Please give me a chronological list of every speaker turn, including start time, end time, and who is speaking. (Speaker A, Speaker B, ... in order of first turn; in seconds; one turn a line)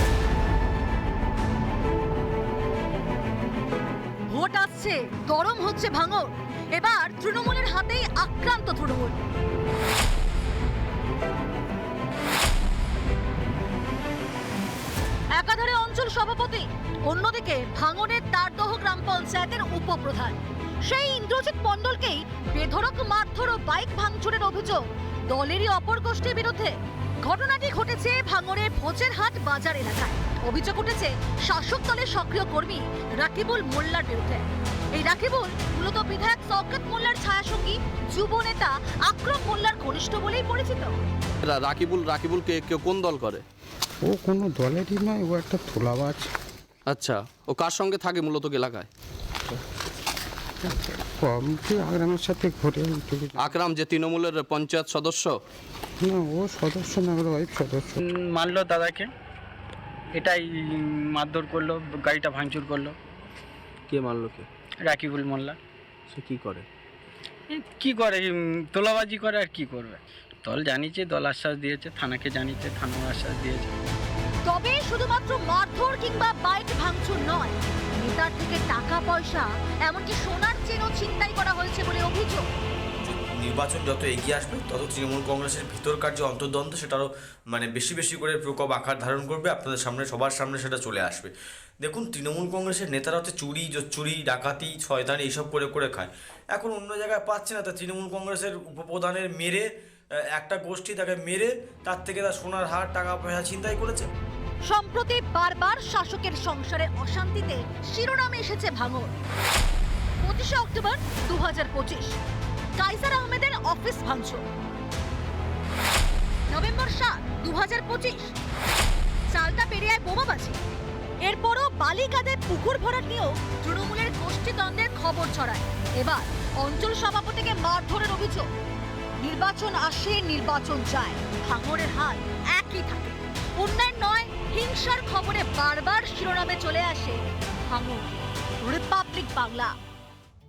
Speaker A: 4.3-9.2
Speaker A: 15.3-40.9
Speaker B: 41.4-43.4
Speaker C: 44.0-46.3
Speaker B: 46.9-48.9
Speaker C: 51.1-53.4
Speaker B: 53.4-55.4
Speaker C: 56.0-57.9
Speaker D: 58.0-59.1
Speaker D: 60.1-63.0
Speaker D: 63.9-65.6
Speaker D: 66.1-66.7
Speaker D: 67.5-73.7
Speaker A: 74.5-82.5
Speaker E: 83.0-104.1
Speaker A: 104.7-109.2
Speaker A: 110.2-112.2
Speaker A: 112.8-114.4
Speaker A: 116.5-118.3
Speaker A: 119.3-120.6
Speaker A: 121.2-128.5
Speaker A: 129.2-139.8